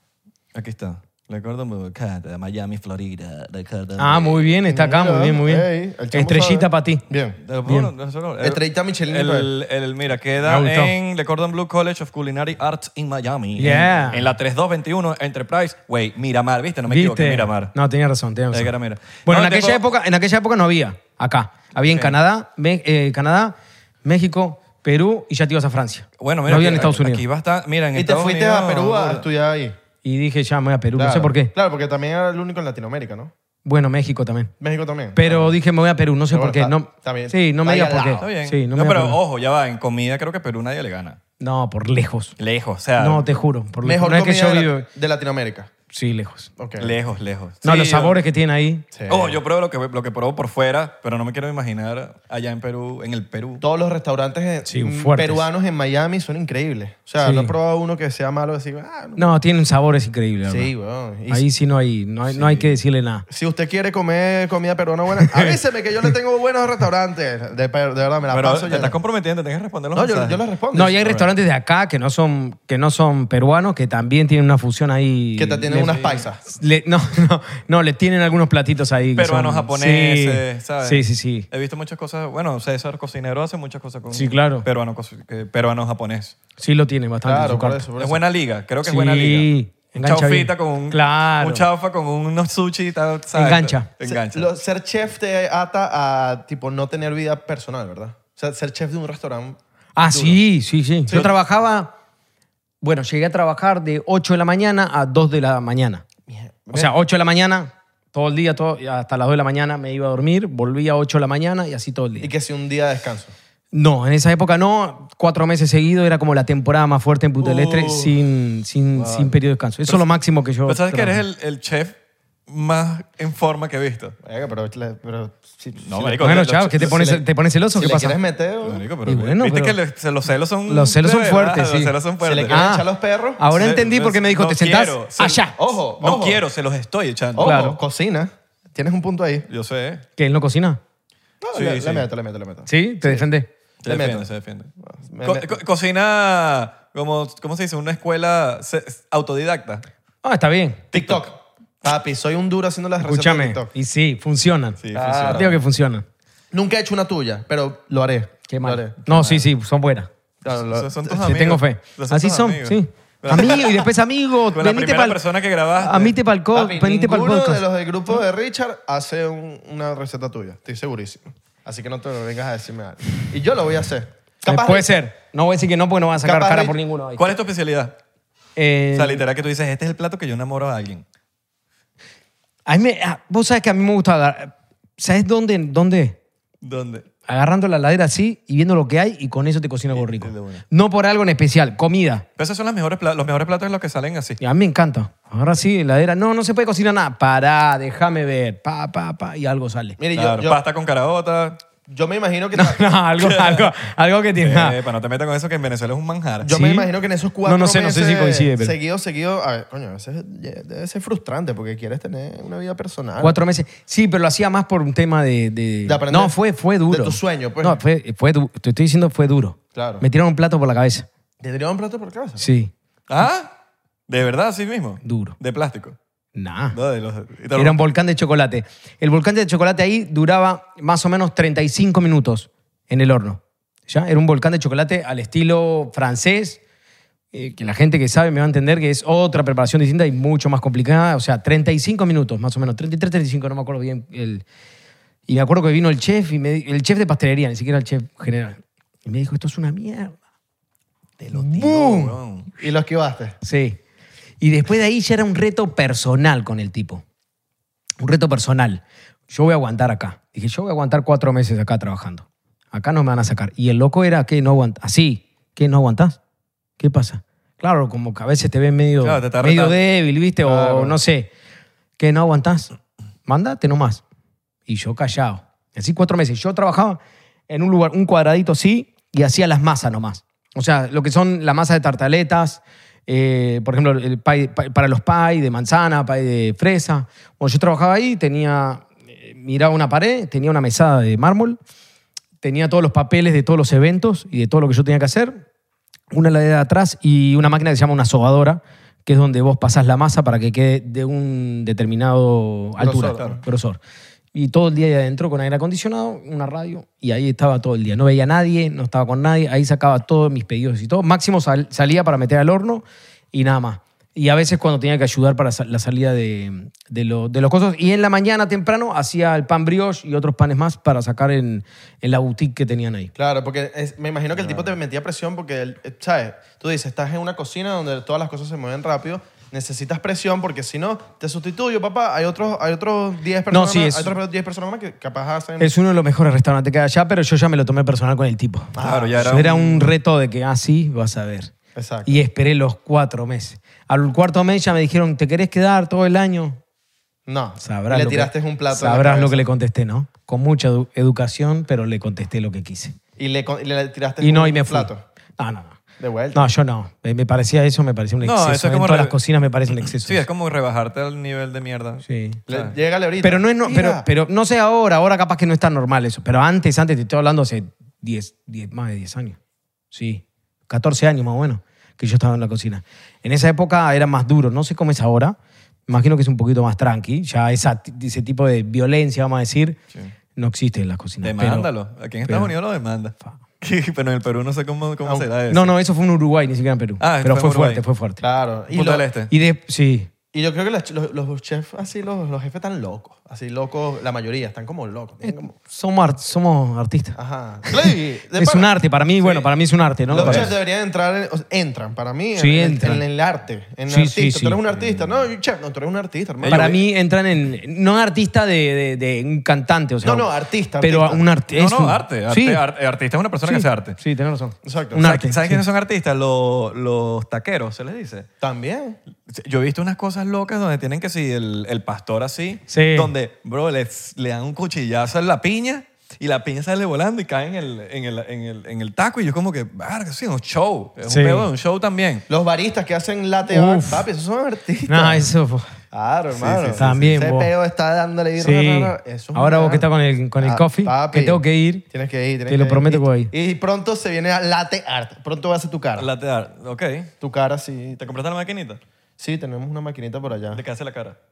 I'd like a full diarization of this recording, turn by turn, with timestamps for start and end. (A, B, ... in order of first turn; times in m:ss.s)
0:00.5-0:04.4 A
0:04.0-0:07.0 B
0:04.7-0:07.4 C
0:07.4-0:17.7 A
0:08.4-0:09.5 C
0:10.4-0:10.9 B
0:13.6-0:14.2 B
0:16.9-0:18.7 B
0:18.5-0:19.8 A
0:19.2-0:27.2 B
0:21.8-0:22.2 A
0:26.2-0:29.2 A
0:27.9-0:29.8 C
0:30.0-0:31.5 B
0:31.0-0:33.3 C
0:33.6-0:34.5 B
0:34.6-0:35.6 C
0:35.1-0:39.2 B
0:36.3-0:38.3 C
0:38.2-0:41.2 A
0:41.4-0:42.4 B
0:42.4-0:43.3 A
0:43.0-0:44.8 B
0:43.8-0:45.7 C
0:45.9-0:46.5 B
0:46.6-0:46.9 C
0:46.8-0:48.2 A
0:47.6-0:48.8 B
0:48.9-0:49.4 C
0:49.1-0:53.6 A
0:53.6-0:59.3 C
0:54.6-0:55.4 B
0:57.2-0:57.5 B
0:59.2-1:00.7 B
1:00.5-1:01.4 C
1:01.3-1:03.2 B
1:02.3-1:02.7 A
1:03.3-1:09.0 C
1:05.2-1:05.5 B
1:08.3-1:10.4 A
1:09.9-1:11.0 C
1:10.7-1:21.5 B
1:11.0-1:11.3 A
1:15.4-1:16.4 C
1:15.8-1:16.2 A
1:19.2-1:26.4 A
1:24.1-1:24.6 B
1:26.6-1:27.8 B
1:27.2-1:28.2 C
1:28.0-1:34.5 A
1:28.8-1:31.6 B
1:33.3-1:33.9 B
1:34.0-1:40.4 C
1:40.0-1:41.9 B
1:42.8-1:46.0 B
1:46.3-1:46.9 C
1:46.7-1:52.3 B
1:52.2-1:53.3 C
1:53.7-2:01.2 B
1:57.4-1:58.1 C
2:00.6-2:02.0 A
2:02.5-2:04.2 A
2:04.2-2:08.8 C
2:05.8-2:07.0 A
2:06.2-2:08.2 B
2:08.6-2:12.6 A
2:09.0-2:09.8 B
2:10.7-2:11.9 B
2:12.2-2:13.4 C
2:12.5-2:12.8 B
2:13.4-2:15.6 B
2:13.5-2:17.6 A
2:15.6-2:16.4 C
2:17.3-2:19.5 C
2:17.4-2:17.8 B
2:19.5-2:20.0 A
2:20.2-2:20.8 B
2:21.4-2:23.2 C
2:21.5-2:22.1 A
2:22.7-2:23.5 B
2:23.8-2:24.7 A
2:23.8-2:24.3 C
2:24.8-2:25.6 C
2:25.2-2:29.8 A
2:30.2-2:30.9 B
2:30.9-2:31.2 A
2:30.9-2:33.7 C
2:33.0-2:36.0 B
2:34.8-2:35.6 A
2:34.9-2:35.5 C
2:36.5-2:39.0 C
2:38.5-2:40.1 B
2:39.1-2:39.4 A
2:40.4-2:41.2 C
2:40.5-2:43.9 A
2:41.1-2:45.2 B
2:44.5-2:46.1 A
2:45.8-2:47.6 B
2:46.5-2:55.0 C
2:54.4-2:57.3 B
2:56.2-2:56.8 C
2:57.2-2:57.9 A
2:58.6-2:59.2 B
2:58.9-3:01.0 A
3:02.6-3:06.2 B
3:06.6-3:07.0 A
3:07.3-3:12.2 B
3:09.9-3:10.6 A
3:12.4-3:14.4 A
3:14.4-3:20.0 B
3:20.0-3:20.6 C
3:20.1-3:21.6 A
3:21.9-3:22.8 C
3:22.5-3:24.8 B
3:23.2-3:23.7 A
3:24.4-3:26.5 A
3:26.4-3:33.4 C
3:26.5-3:26.9 B
3:27.4-3:28.7 B
3:33.2-3:41.1 B
3:35.8-3:37.8 C
3:39.7-3:40.0 C
3:41.4-3:42.4 C
3:42.4-3:42.7 B
3:43.1-3:43.5 A
3:44.1-3:46.0 A
3:45.0-3:45.3 B
3:46.3-3:46.8 B
3:46.7-3:47.8 A
3:47.5-3:56.6 B
3:57.3-4:04.4 B
4:05.3-4:10.2 B
4:11.2-4:12.5 A
4:11.3-4:12.2 B
4:12.6-4:13.3 C
4:13.4-4:13.8 B
4:14.4-4:17.0 B
4:18.0-4:26.2 B
4:26.8-4:31.3 B
4:29.0-4:29.8 A
4:30.4-4:31.0 C
4:32.0-4:32.7 B
4:33.2-4:34.0 B
4:34.7-4:51.6 B
4:52.4-4:55.4 B
4:56.1-5:03.8 B
5:02.8-5:03.4 C
5:04.3-5:23.1 B
5:23.2-5:35.7 C
5:33.5-5:34.1 B
5:35.6-5:41.5 B
5:38.7-5:39.6 C
5:38.8-5:39.9 A
5:41.7-5:42.1 C
5:42.0-5:46.6 B
5:47.3-5:49.4 C
5:47.6-5:52.9 B
5:53.2-5:55.0 C
5:54.2-5:55.8 B
5:56.0-5:56.5 C
5:56.3-6:00.2 B
5:58.2-5:59.2 A
5:59.8-6:02.7 A
6:02.0-6:02.4 B
6:02.5-6:04.0 C
6:03.2-6:09.4 B
6:09.9-6:15.4 B
6:15.9-6:19.8 B
6:20.4-6:21.7 B
6:21.2-6:25.7 A
6:22.2-6:22.5 B
6:25.5-6:28.2 B
6:27.0-6:27.8 A
6:28.2-6:29.1 C
6:28.7-6:29.3 A
6:29.3-6:30.1 B
6:30.3-6:35.5 C
6:35.2-6:40.5 B
6:37.2-6:38.7 C
6:40.1-6:46.7 C
6:40.1-6:40.5 A
6:42.4-6:43.0 B
6:43.9-6:44.9 B
6:46.4-6:46.8 A
6:46.5-6:50.3 B
6:50.0-6:51.2 C
6:50.8-6:52.6 B
6:51.5-6:54.0 A
6:53.4-6:55.6 B
6:54.6-6:55.0 C
6:55.0-6:58.3 A
6:58.4-6:59.0 C
6:59.3-7:12.2 A
7:02.7-7:03.1 B
7:11.0-7:11.4 B
7:12.3-7:15.2 C
7:13.5-7:14.0 B
7:14.9-7:15.8 B
7:15.9-7:19.8 C
7:16.3-7:17.0 A
7:16.8-7:17.5 B
7:18.4-7:21.8 B
7:20.4-7:26.1 C
7:22.5-7:23.3 B
7:26.0-7:27.1 A
7:27.2-7:28.0 C
7:28.0-7:28.8 A
7:29.2-7:30.6 C
7:30.5-7:31.2 A